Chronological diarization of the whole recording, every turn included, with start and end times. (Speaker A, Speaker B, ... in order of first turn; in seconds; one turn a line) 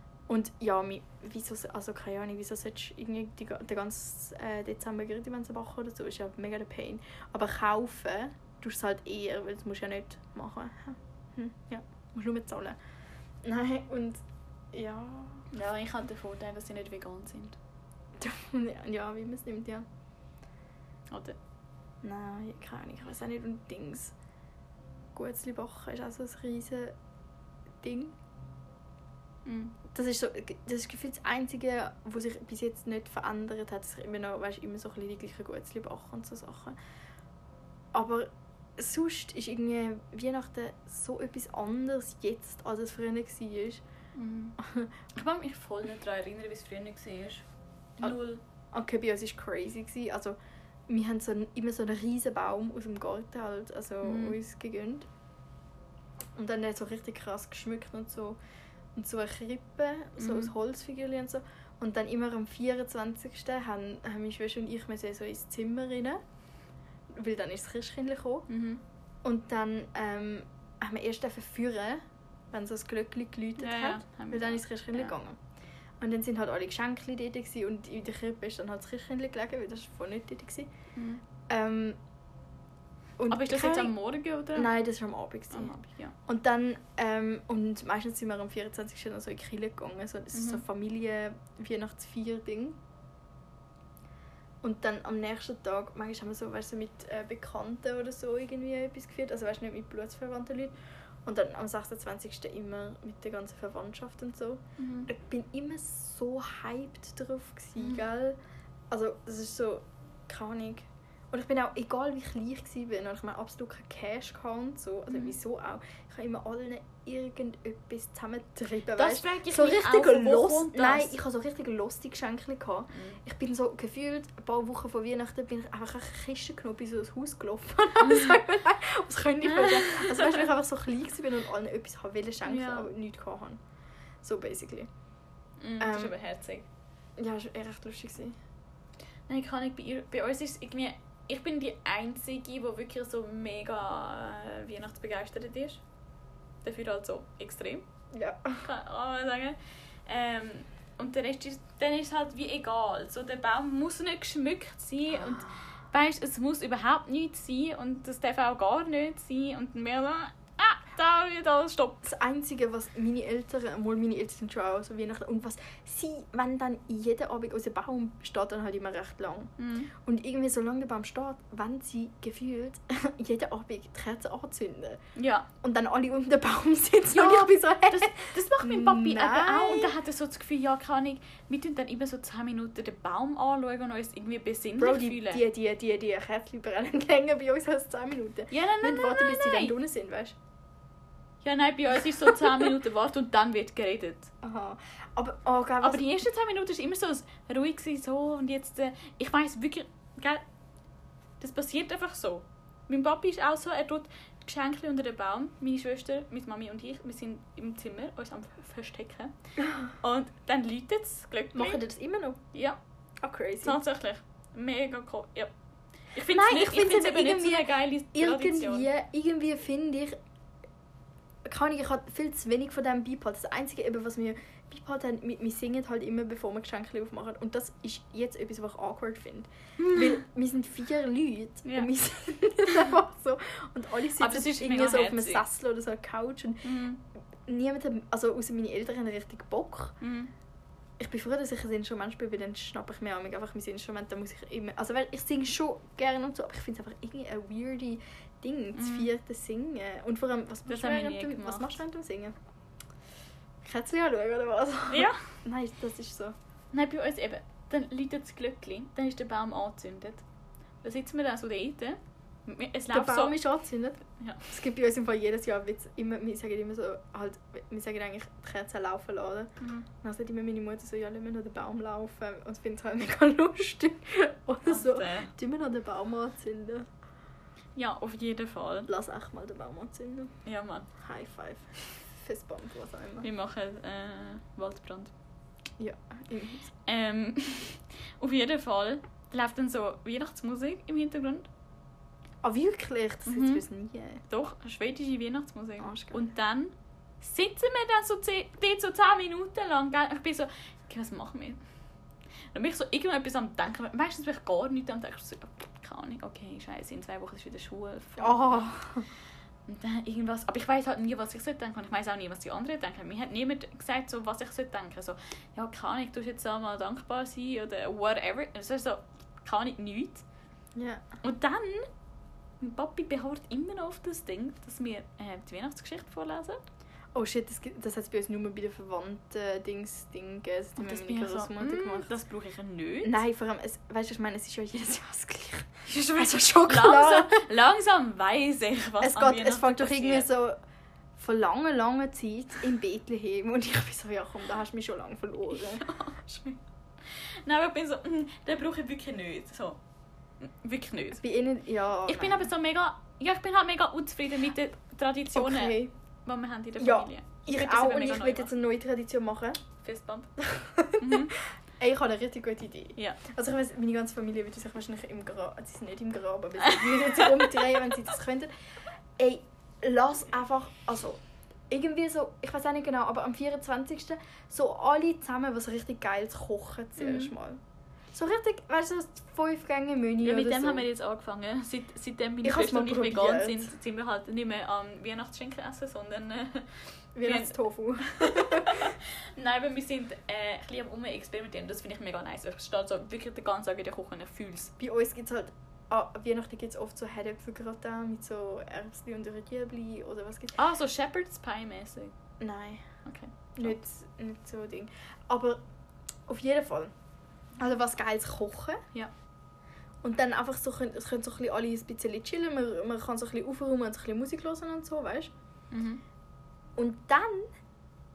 Speaker A: 0.3-12.8
Speaker A: 13.4-14.2
Speaker A: 14.7-15.5
Speaker B: 15.5-17.6
Speaker A: 18.2-19.9
Speaker B: 21.1-21.4
Speaker A: 22.0-24.1
Speaker A: 25.1-27.0
Speaker A: 27.8-28.1
Speaker B: 29.4-29.8
Speaker A: 29.9-36.8
Speaker A: 37.9-43.8
Speaker B: 44.1-44.6
Speaker A: 44.6-44.9
Speaker B: 45.1-47.5
Speaker B: 48.0-48.4
Speaker A: 48.7-50.4
Speaker A: 50.9-55.1
Speaker B: 54.0-54.4
Speaker A: 56.4-58.4
Speaker A: 59.0-66.2
Speaker B: 60.2-60.5
Speaker A: 67.1-68.5
Speaker B: 68.5-68.8
Speaker A: 69.2-75.4
Speaker B: 73.6-75.1
Speaker A: 76.0-80.7
Speaker B: 81.0-81.2
Speaker A: 81.5-82.0
Speaker A: 83.2-83.9
Speaker B: 83.3-84.7
Speaker A: 84.5-92.8
Speaker B: 85.5-86.2
Speaker B: 90.3-90.6
Speaker A: 94.6-100.7
Speaker A: 101.2-108.4
Speaker B: 104.8-105.1
Speaker A: 108.9-133.6
Speaker B: 119.0-121.1
Speaker B: 122.9-123.2
Speaker B: 129.4-130.4
Speaker B: 132.4-132.9
Speaker A: 134.2-134.9
Speaker B: 135.6-136.7
Speaker A: 135.8-136.1
Speaker A: 137.2-138.4
Speaker B: 139.3-145.8
Speaker B: 146.6-147.8
Speaker A: 148.1-148.7
Speaker B: 148.6-162.0
Speaker A: 162.0-175.0
Speaker B: 169.6-169.9
Speaker B: 175.2-175.5
Speaker A: 175.6-179.9
Speaker B: 177.1-185.4
Speaker A: 184.8-190.4
Speaker B: 188.5-189.7
Speaker B: 191.4-194.3
Speaker A: 194.4-196.1
Speaker B: 195.8-200.4
Speaker B: 201.4-211.8
Speaker A: 211.5-212.4
Speaker B: 212.5-212.8
Speaker A: 213.2-213.8
Speaker B: 213.6-215.5
Speaker B: 216.0-218.9
Speaker A: 216.3-220.2
Speaker A: 221.4-236.8
Speaker B: 229.8-230.1
Speaker B: 231.7-231.9
Speaker B: 234.2-235.4
Speaker B: 236.6-237.0
Speaker A: 237.4-240.0
Speaker B: 240.0-240.3
Speaker A: 241.0-252.3
Speaker B: 248.8-249.1
Speaker B: 250.7-251.8
Speaker A: 253.6-256.4
Speaker B: 254.9-255.4
Speaker B: 256.7-260.2
Speaker B: 260.8-263.4
Speaker A: 262.9-276.9
Speaker B: 264.2-264.4
Speaker B: 269.6-269.9
Speaker B: 274.7-275.3
Speaker B: 277.8-278.9
Speaker A: 278.9-280.4
Speaker B: 280.4-280.9
Speaker A: 281.0-283.3
Speaker B: 283.2-285.1
Speaker A: 285.8-286.7
Speaker B: 286.9-291.5
Speaker A: 292.4-294.2
Speaker B: 293.3-293.6
Speaker B: 294.3-301.6
Speaker A: 295.8-296.3
Speaker B: 302.5-308.8
Speaker A: 308.2-309.1
Speaker B: 309.7-320.3
Speaker A: 320.8-321.0
Speaker B: 321.2-321.9
Speaker B: 322.6-326.6
Speaker A: 327.1-332.1
Speaker B: 330.8-333.1
Speaker A: 333.0-337.5
Speaker B: 335.9-340.3
Speaker A: 339.0-340.6
Speaker A: 341.2-345.9
Speaker B: 345.5-349.8
Speaker B: 350.4-351.2
Speaker A: 351.2-352.5
Speaker B: 352.1-358.5
Speaker A: 355.3-355.9
Speaker A: 356.8-359.6
Speaker B: 359.8-360.3
Speaker A: 360.4-368.5
Speaker B: 361.0-361.3
Speaker B: 366.6-367.9
Speaker A: 369.2-377.6
Speaker B: 377.0-377.3
Speaker A: 378.1-380.9
Speaker B: 380.2-394.7
Speaker A: 382.4-383.7
Speaker A: 387.2-388.9
Speaker A: 394.8-400.6
Speaker B: 400.6-402.1
Speaker A: 402.4-403.0
Speaker B: 403.1-403.8
Speaker A: 403.6-405.6
Speaker A: 406.3-406.9
Speaker A: 407.6-408.8
Speaker A: 410.0-415.3
Speaker B: 415.7-416.0
Speaker A: 416.8-417.5